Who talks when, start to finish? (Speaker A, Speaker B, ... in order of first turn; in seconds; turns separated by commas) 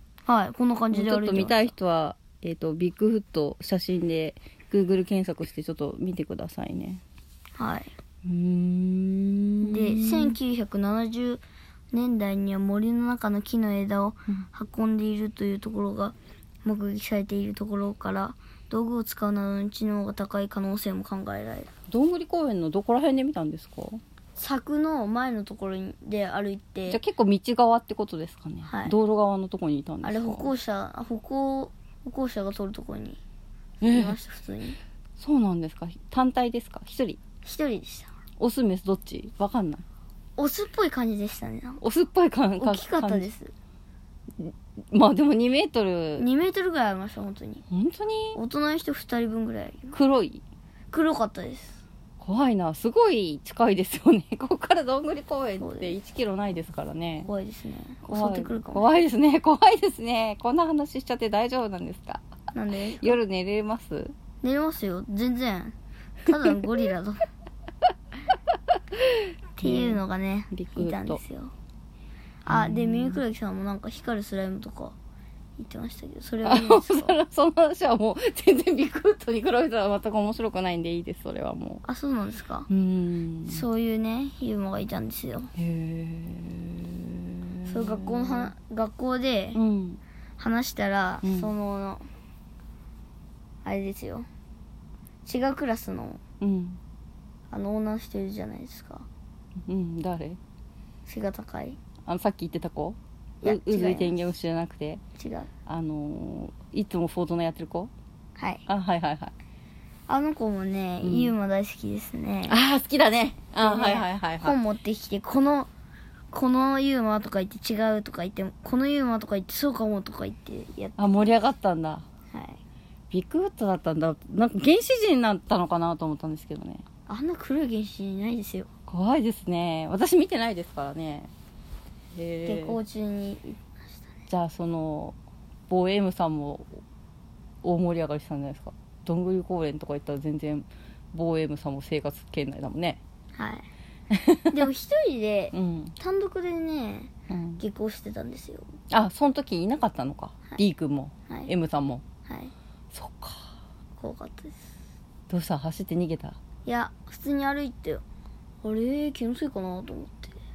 Speaker A: 0.2-1.7, Speaker B: 0.9-7.0, Speaker A: 7.6-7.9, Speaker B: 8.2-10.4, Speaker A: 9.6-21.7, Speaker B: 21.9-24.0, Speaker A: 24.4-27.0, Speaker B: 26.9-30.5, Speaker A: 28.6-28.9, Speaker A: 30.0-33.2, Speaker B: 33.8-34.2, Speaker A: 33.8-34.8, Speaker B: 35.2-37.2, Speaker A: 37.4-38.1, Speaker B: 38.4-39.8, Speaker A: 40.4-41.8, Speaker B: 41.8-43.3, Speaker A: 42.6-43.5, Speaker B: 44.4-46.2, Speaker A: 46.2-47.6, Speaker B: 47.7-48.4, Speaker A: 48.3-50.0, Speaker B: 49.9-50.4, Speaker A: 50.9-51.8, Speaker B: 52.2-57.3, Speaker A: 55.6-56.0, Speaker A: 57.2-58.9, Speaker B: 58.0-62.2, Speaker A: 62.5-63.2, Speaker B: 63.0-64.1, Speaker A: 64.4-67.2, Speaker B: 68.9-71.2, Speaker A: 69.6-71.5, Speaker A: 72.4-75.0, Speaker B: 72.5-73.2, Speaker A: 75.6-77.2, Speaker B: 76.4-81.8, Speaker A: 81.8-82.7, Speaker B: 82.7-83.6, Speaker A: 83.5-85.5, Speaker B: 85.5-88.5, Speaker A: 87.7-89.6, Speaker B: 89.5-90.0, Speaker A: 90.4-92.0, Speaker B: 91.2-91.5, Speaker A: 93.6-94.3, Speaker A: 95.2-96.2, Speaker B: 96.4-96.8, Speaker A: 97.5-99.1, Speaker B: 99.7-100.4, Speaker A: 101.0-101.8, Speaker B: 102.0-105.0, Speaker A: 103.4-104.2, Speaker A: 105.2-105.5, Speaker B: 105.7-107.9, Speaker A: 108.4-108.6, Speaker B: 108.7-109.3, Speaker A: 110.1-112.6, Speaker B: 111.0-111.3, Speaker B: 112.5-114.6, Speaker A: 113.6-115.7, Speaker A: 116.3-121.1, Speaker B: 121.0-122.0, Speaker A: 122.3-122.6, Speaker B: 123.1-126.8, Speaker A: 127.1-128.7, Speaker B: 128.9-131.3, Speaker B: 132.1-132.8, Speaker A: 132.4-134.0, Speaker B: 134.3-135.2, Speaker B: 135.7-136.8, Speaker B: 137.6-143.0, Speaker A: 143.3-143.7, Speaker B: 144.1-144.6, Speaker A: 144.5-148.7, Speaker B: 145.5-145.9, Speaker B: 147.3-147.6, Speaker B: 148.9-152.0, Speaker A: 152.2-152.5, Speaker B: 152.9-153.5, Speaker A: 154.0-154.7, Speaker B: 155.3-156.4, Speaker A: 156.6-158.0, Speaker A: 158.6-160.4